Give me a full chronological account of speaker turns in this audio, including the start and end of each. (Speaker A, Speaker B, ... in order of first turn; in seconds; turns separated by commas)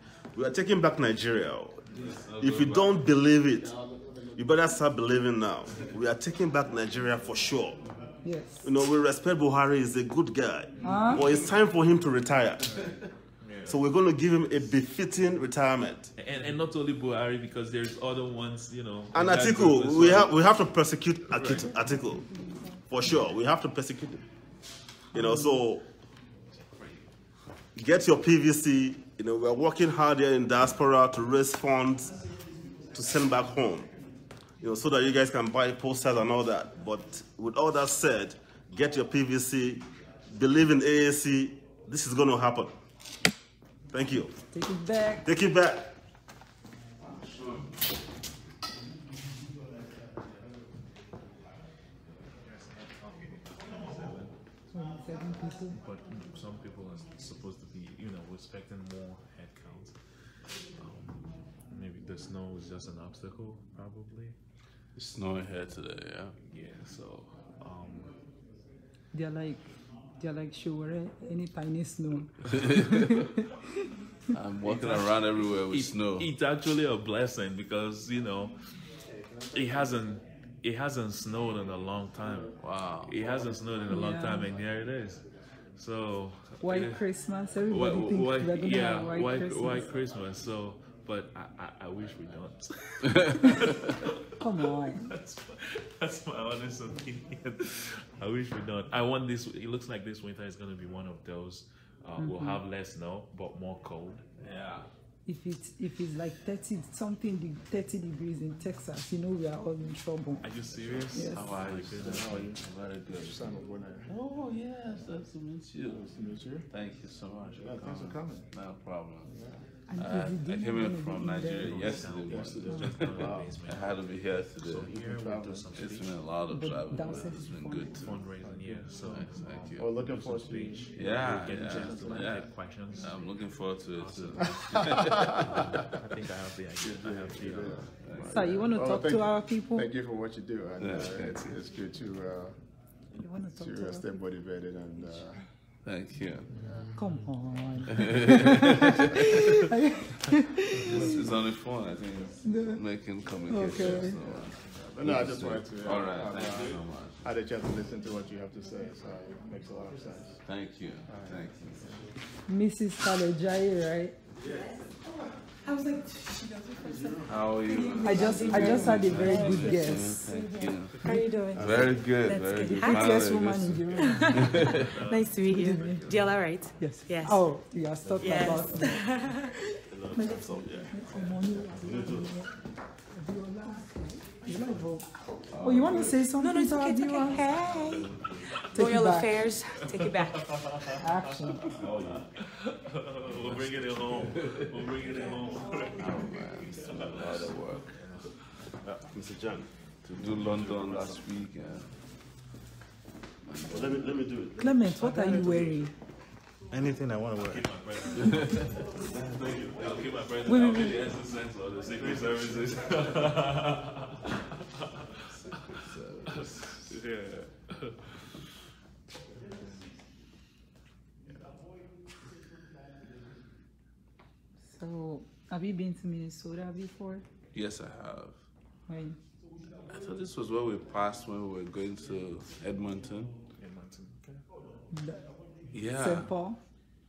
Speaker A: 0.3-3.8, Speaker B: 1.9-3.1, Speaker A: 4.3-7.8, Speaker C: 8.2-8.7, Speaker A: 8.6-12.8, Speaker C: 10.8-11.3, Speaker D: 13.4-13.8, Speaker A: 13.7-16.1, Speaker D: 16.2-20.4, Speaker A: 19.1-22.3, Speaker D: 21.3-21.7, Speaker C: 21.8-23.1, Speaker A: 22.9-24.2, Speaker A: 25.1-25.8, Speaker C: 25.2-25.6, Speaker A: 27.8-32.1, Speaker A: 32.9-33.9, Speaker A: 34.6-42.7, Speaker A: 43.9-44.3, Speaker C: 44.5-45.2, Speaker A: 45.2-45.9, Speaker B: 47.1-47.8, Speaker D: 52.4-54.3, Speaker C: 54.7-55.8, Speaker D: 55.7-60.0, Speaker D: 60.8-64.4, Speaker B: 65.0-66.3, Speaker D: 66.5-68.2, Speaker C: 69.1-69.7, Speaker C: 70.2-73.5, Speaker B: 72.5-73.2, Speaker B: 74.3-76.3, Speaker D: 74.6-78.5, Speaker E: 79.2-79.9, Speaker D: 79.5-85.2, Speaker B: 82.6-83.2, Speaker C: 83.9-84.5, Speaker D: 85.8-87.0, Speaker C: 86.6-89.9, Speaker D: 87.7-94.2, Speaker C: 94.4-95.1, Speaker D: 94.8-104.2, Speaker C: 102.2-102.6, Speaker B: 104.4-104.9, Speaker C: 105.2-110.5, Speaker D: 110.4-112.5, Speaker C: 111.1-111.4, Speaker B: 111.3-113.4, Speaker E: 112.0-112.6, Speaker E: 113.2-114.1, Speaker B: 114.1-116.0, Speaker E: 115.9-116.6, Speaker B: 116.7-119.3, Speaker E: 117.6-118.5, Speaker E: 119.3-119.6, Speaker C: 119.9-122.0, Speaker B: 119.9-124.9, Speaker D: 121.5-124.0, Speaker E: 122.2-123.5, Speaker C: 122.7-123.0, Speaker D: 124.6-126.1, Speaker E: 124.8-125.7, Speaker B: 125.7-128.2, Speaker C: 126.5-127.9, Speaker D: 128.0-133.2, Speaker E: 128.4-128.9, Speaker B: 128.9-129.9, Speaker E: 129.8-132.4, Speaker B: 130.9-135.8, Speaker D: 133.9-137.9, Speaker E: 134.4-135.4, Speaker E: 136.8-142.5, Speaker B: 137.9-138.4, Speaker C: 138.3-139.9, Speaker B: 140.8-141.6, Speaker C: 143.2-144.2, Speaker E: 143.5-145.4, Speaker C: 145.0-145.2, Speaker B: 145.8-146.5, Speaker C: 146.9-151.2, Speaker B: 147.9-149.1, Speaker B: 150.9-157.2, Speaker C: 152.4-152.8, Speaker C: 153.5-154.2, Speaker E: 153.9-160.4, Speaker B: 160.4-162.0, Speaker E: 161.1-161.9, Speaker C: 162.5-164.2, Speaker F: 164.5-173.4, Speaker B: 167.2-175.0, Speaker C: 168.0-170.3, Speaker C: 171.0-171.6, Speaker E: 171.5-172.2, Speaker C: 172.8-174.8, Speaker F: 173.9-177.4, Speaker D: 174.8-176.3, Speaker C: 175.4-176.1, Speaker C: 176.8-179.3, Speaker F: 178.2-179.5, Speaker A: 179.9-182.3, Speaker C: 180.1-182.5, Speaker C: 183.1-187.6, Speaker B: 185.5-186.3, Speaker F: 186.3-188.1, Speaker B: 187.6-188.3, Speaker D: 187.7-188.8, Speaker C: 188.7-189.5, Speaker F: 188.7-190.6, Speaker D: 189.5-191.1, Speaker C: 191.0-191.7, Speaker D: 191.7-198.3, Speaker B: 191.8-192.2, Speaker A: 191.8-192.1, Speaker B: 193.4-194.7, Speaker B: 196.0-197.9, Speaker A: 198.8-201.2, Speaker B: 200.1-201.9, Speaker B: 203.5-204.2, Speaker A: 203.7-205.7, Speaker C: 204.6-205.9, Speaker D: 207.4-215.7, Speaker B: 208.2-210.0, Speaker C: 210.4-211.1, Speaker B: 215.3-217.0, Speaker D: 216.4-218.1, Speaker C: 224.6-227.2, Speaker B: 227.5-228.4, Speaker C: 228.9-229.2, Speaker B: 229.9-233.3, Speaker D: 233.6-234.4, Speaker C: 234.9-235.2, Speaker B: 235.7-236.3, Speaker C: 235.9-236.6